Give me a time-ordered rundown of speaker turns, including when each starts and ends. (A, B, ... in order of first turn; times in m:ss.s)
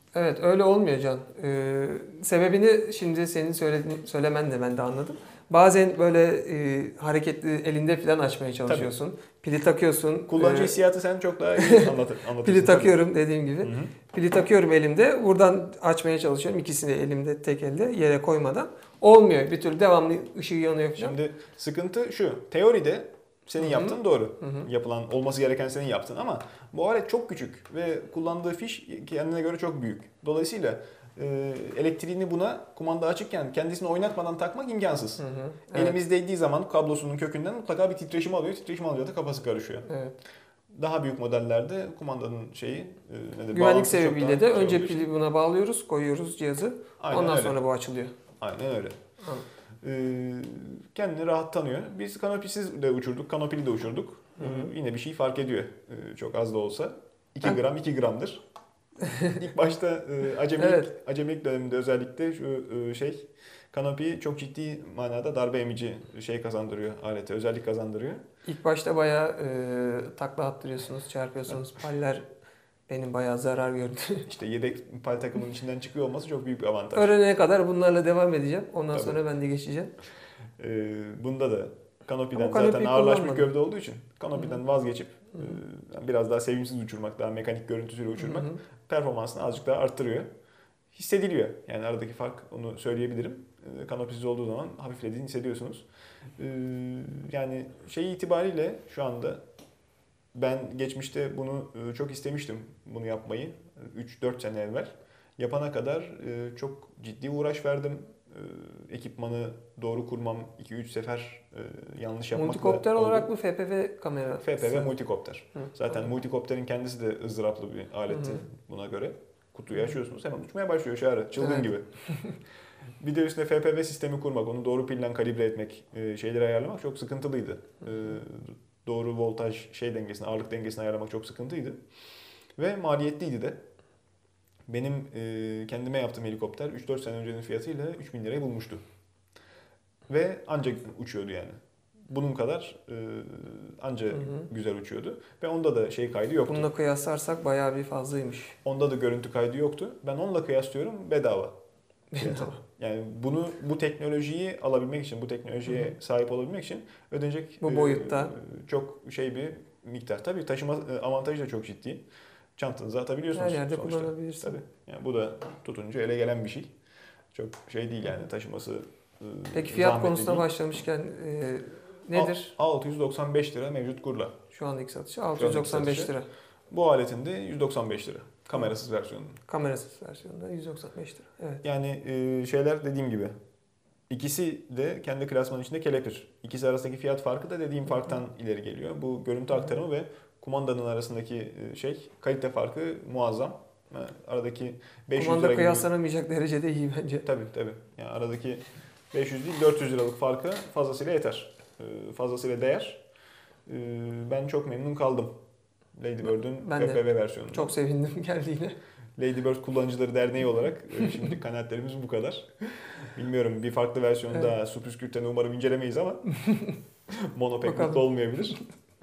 0:00.1-0:10.8 A
0:08.7-0:08.9 B
0:10.3-0:13.0 B
0:11.6-0:11.9 A
0:12.4-0:21.2 A
0:13.6-0:14.0 B
0:21.0-0:35.2 B
0:23.6-0:24.7 A
0:35.2-0:36.0 A
0:35.7-0:39.9 B
0:39.9-0:40.2 A
0:40.7-0:45.1 B
0:43.5-0:48.1 A
0:47.0-0:47.6 B
0:48.4-0:49.0 B
0:49.8-0:58.4 B
0:54.4-0:54.7 A
0:59.0-0:59.3 A
0:59.3-1:08.2 B
1:00.6-1:00.9 A
1:08.4-1:12.2 A
1:12.9-1:14.3 A
1:14.3-1:17.1 B
1:17.0-1:19.9 A
1:18.9-1:19.2 B
1:20.6-1:30.3 B
1:22.3-1:23.5 A
1:28.2-1:28.6 A
1:30.9-1:35.8 B
1:36.4-1:39.4 B
1:40.3-1:53.3 B
1:52.3-1:54.9 A
1:54.4-2:01.8 B
1:58.1-1:58.4 A
2:01.4-2:01.7 A
2:03.0-2:11.8 B
2:12.6-2:13.6 B
2:14.7-2:18.8 B
2:20.1-2:21.6 B
2:22.1-2:26.7 B
2:26.5-2:28.6 A
2:28.6-2:31.6 B
2:32.1-2:32.6 A
2:32.2-2:42.0 B
2:35.7-2:35.9 A
2:37.6-2:38.3 A
2:42.6-2:46.7 B
2:43.3-2:44.6 A
2:47.3-2:50.5 B
2:49.5-2:52.5 A
2:52.1-2:54.4 B
2:54.5-2:56.3 A
2:55.4-2:56.1 B
2:56.7-2:59.4 B
2:59.5-3:01.6 A
3:01.6-3:03.3 B
3:04.1-3:15.9 B
3:15.2-3:17.3 A
3:17.2-3:23.0 B
3:23.7-3:25.3 B
3:26.0-3:27.7 B
3:26.6-3:28.8 A
3:29.2-3:32.5 B
3:33.0-3:36.3 B
3:36.4-3:36.8 A
3:37.1-3:38.6 B
3:37.6-3:38.0 A